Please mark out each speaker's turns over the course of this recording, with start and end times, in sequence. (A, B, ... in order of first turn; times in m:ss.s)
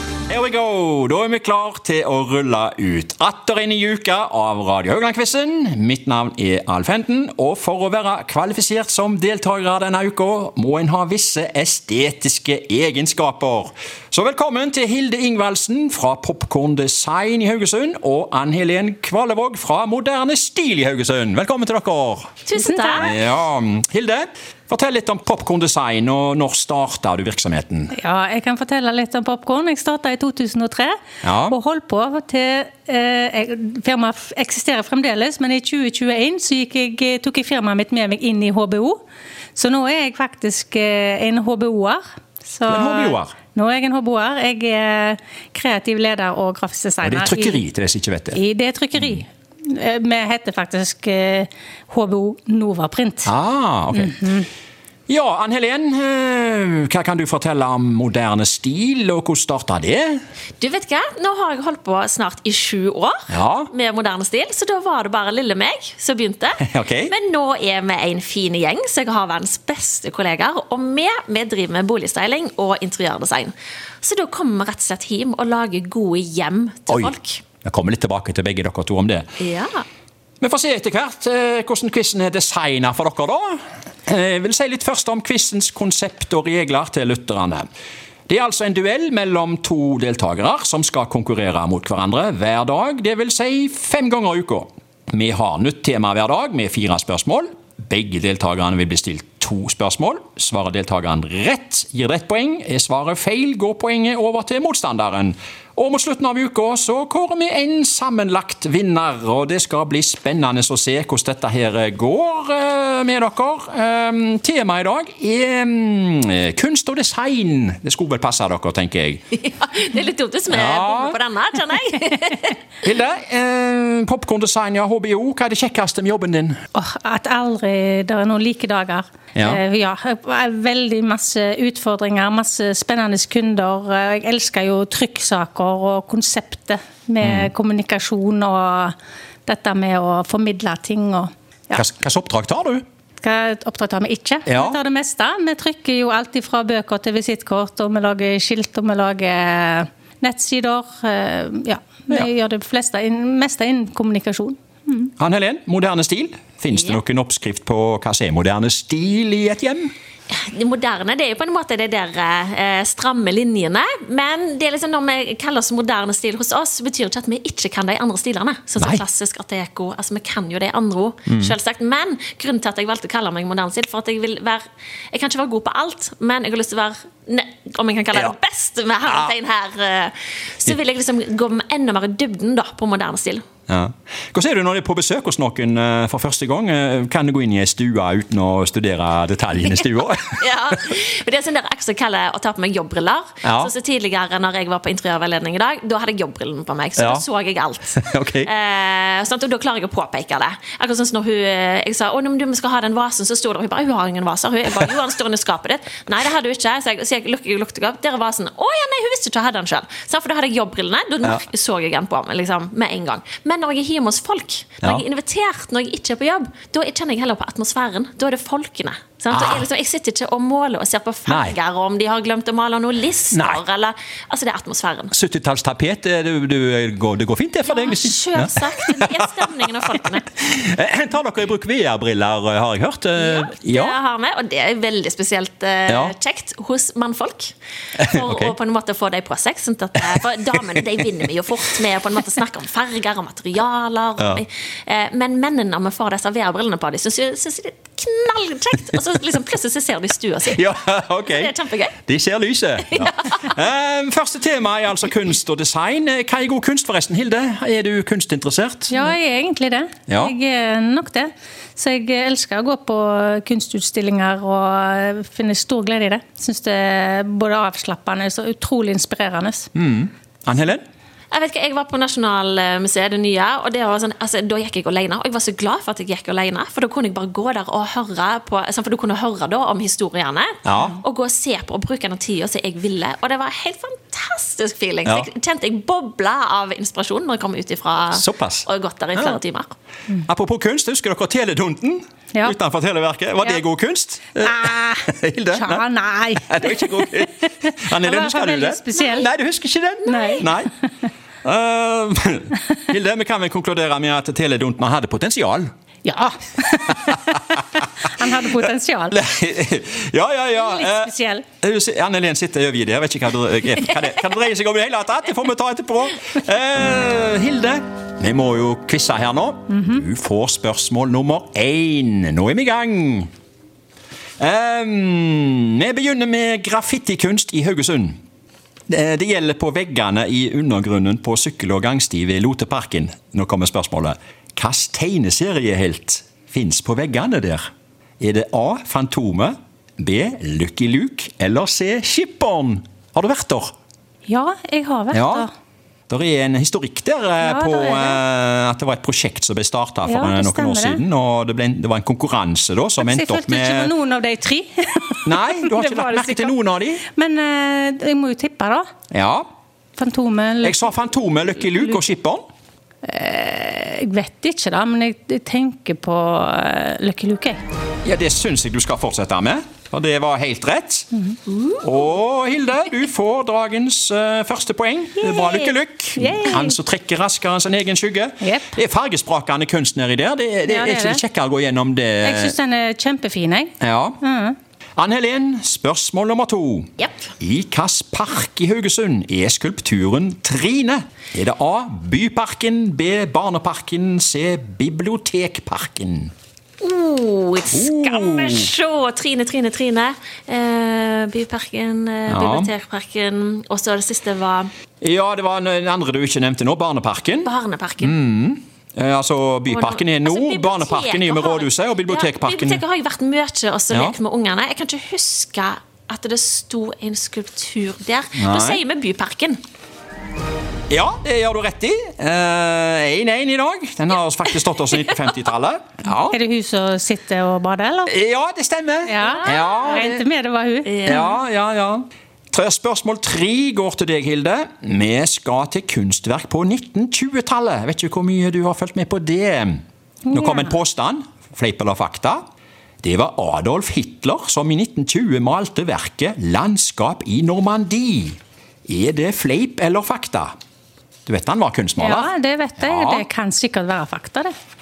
0:00.3-0:22.3 A
0:22.4-0:23.1 B
0:22.6-0:23.1 C
0:23.0-0:27.9 A
0:27.9-0:31.0 C
0:31.2-0:31.6 A
0:31.5-0:39.0 C
0:39.5-0:47.6 C
0:42.7-0:43.3 A
0:47.0-0:48.4 A
0:48.3-0:53.3 C
0:53.2-0:54.4 A
0:53.9-0:54.5 C
0:55.1-1:00.2 A
1:00.6-1:17.4 B
1:03.3-1:03.7 A
1:06.6-1:07.1 A
1:17.6-1:19.3 A
1:19.4-1:19.8 B
1:20.4-1:27.6 A
1:28.3-1:59.2 A
1:59.4-2:02.5 B
2:00.5-2:01.2 A
2:02.8-2:06.6 A
2:06.7-2:21.8 C
2:09.3-2:09.6 A
2:17.2-2:17.5 A
2:21.7-2:22.8 A
2:23.2-2:35.1 C
2:24.4-2:24.8 A
2:35.2-2:39.9 A
2:40.3-3:03.4 B
2:51.3-2:51.5 A
2:59.1-2:59.3 A
3:03.7-3:10.4 A
3:10.4-3:45.1 B
3:13.4-3:13.7 A
3:17.0-3:17.2 A
3:17.9-3:18.5 A
3:39.3-3:39.6 A
3:41.3-3:41.6 A
3:43.3-3:43.6 A
3:45.1-3:53.9 A
3:47.7-3:50.3 B
3:53.2-4:10.7 B
3:55.9-3:56.1 A
3:58.0-3:58.5 A
4:00.5-4:00.8 A
4:10.5-4:19.1 A
4:11.2-4:12.0 B
4:12.9-4:13.5 B
4:18.9-4:29.7 C
4:20.1-4:20.3 A
4:29.7-4:30.8 A
4:31.3-4:49.7 B
4:40.6-4:41.0 A
4:48.1-4:49.4 A
4:50.2-5:00.7 A
4:54.4-4:59.3 C
5:00.0-5:00.4 B
5:00.0-5:00.6 C
5:01.4-5:05.7 A
5:06.0-5:09.2 C
5:06.9-5:07.2 A
5:09.1-5:23.3 A
5:10.6-5:11.4 C
5:19.7-5:20.0 C
5:24.4-5:28.2 A
5:28.9-5:37.7 A
5:38.2-5:43.7 A
5:44.2-5:45.5 C
5:45.1-5:45.5 A
5:46.1-5:53.9 A
5:47.4-5:48.2 C
5:50.0-5:51.0 C
5:53.0-5:56.5 C
5:55.2-5:57.0 A
5:57.1-5:58.8 C
5:59.1-5:59.4 A
6:00.0-6:00.9 C
6:00.6-6:02.4 A
6:03.0-6:07.6 C
6:08.0-6:11.1 A
6:11.5-6:11.8 B
6:11.8-6:22.6 A
6:15.2-6:15.6 C
6:16.2-6:16.8 C
6:18.4-6:18.8 C
6:20.7-6:21.2 C
6:22.2-6:24.6 C
6:23.8-6:24.2 A
6:25.0-6:36.3 A
6:36.8-6:44.7 B
6:37.7-6:38.7 A
6:42.3-6:42.7 A
6:45.0-6:47.5 A
6:47.4-6:48.2 B
6:48.0-6:52.8 A
6:49.7-6:59.6 B
6:53.9-6:54.2 A
6:58.3-6:58.8 A
7:00.9-7:06.4 A
7:06.1-7:08.1 C
7:08.1-7:10.2 A
7:09.0-7:11.2 C
7:09.2-7:10.0 B
7:10.8-7:11.4 B
7:11.0-7:22.4 A
7:20.2-7:20.8 C
7:23.0-7:30.5 A
7:31.2-7:33.2 A
7:32.0-7:34.5 C